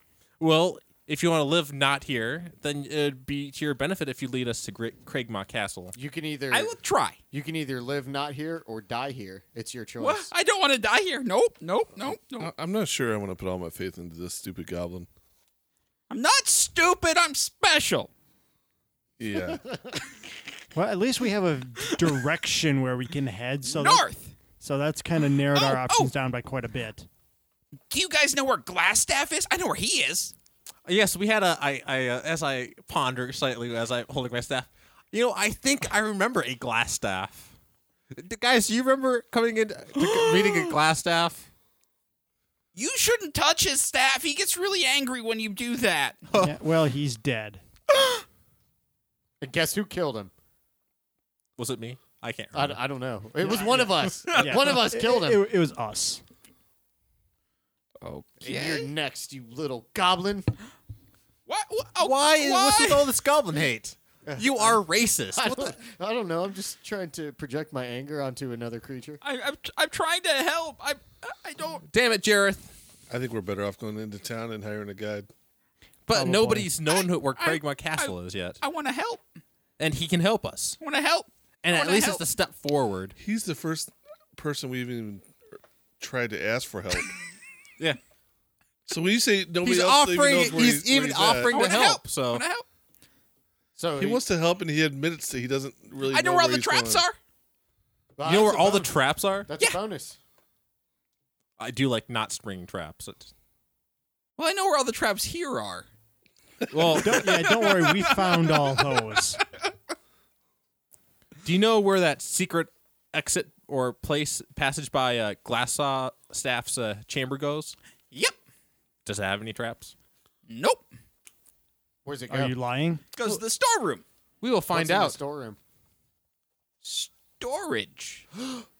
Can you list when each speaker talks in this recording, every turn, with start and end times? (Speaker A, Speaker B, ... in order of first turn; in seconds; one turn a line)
Speaker A: 0.4-6.0
Speaker B: 6.0-6.7
Speaker C: 6.5-7.2
Speaker B: 7.3-10.3
Speaker C: 10.0-12.5
Speaker D: 12.4-15.1
Speaker C: 16.1-18.1
Speaker D: 19.2-19.6
Speaker E: 20.7-24.1
Speaker C: 23.6-24.3
Speaker E: 24.6-27.1
Speaker C: 25.5-26.1
Speaker C: 27.9-30.3
Speaker A: 30.8-37.5
Speaker A: 38.1-41.5
Speaker C: 40.0-40.7
Speaker C: 42.7-46.2
Speaker A: 46.3-46.6
Speaker E: 46.4-47.6
Speaker C: 48.0-48.2
Speaker B: 49.4-50.3
Speaker A: 51.6-52.8
Speaker B: 52.5-55.4
Speaker E: 53.4-56.2
Speaker C: 58.0-58.9
Speaker B: 58.4-60.5
Speaker C: 61.5-63.1
Speaker A: 62.0-65.8
Speaker B: 64.2-64.8
Speaker B: 65.3-69.2
Speaker C: 69.2-71.8
Speaker A: 71.9-72.8
Speaker D: 73.1-75.3
Speaker A: 76.1-78.6
Speaker E: 76.1-76.7
Speaker C: 76.9-79.2
Speaker A: 79.8-80.8
Speaker C: 80.8-82.2
Speaker A: 81.6-83.1
Speaker D: 83.2-85.3
Speaker D: 86.0-87.2
Speaker D: 88.9-91.5
Speaker A: 89.6-92.4
Speaker C: 91.5-92.6
Speaker B: 93.8-94.2
Speaker D: 94.0-97.0
Speaker C: 96.0-97.2
Speaker B: 98.2-100.2
Speaker A: 98.2-99.5
Speaker A: 101.6-103.3
Speaker C: 104.4-105.9
Speaker A: 106.7-107.3
Speaker E: 107.0-109.4
Speaker C: 107.1-109.2
Speaker A: 111.4-117.8
Speaker C: 118.1-118.4
Speaker A: 119.0-119.9
Speaker C: 120.5-120.9
Speaker B: 122.0-122.5
Speaker E: 122.3-123.0
Speaker C: 123.1-124.0
Speaker A: 124.4-125.2
Speaker B: 124.7-125.6
Speaker C: 126.8-128.2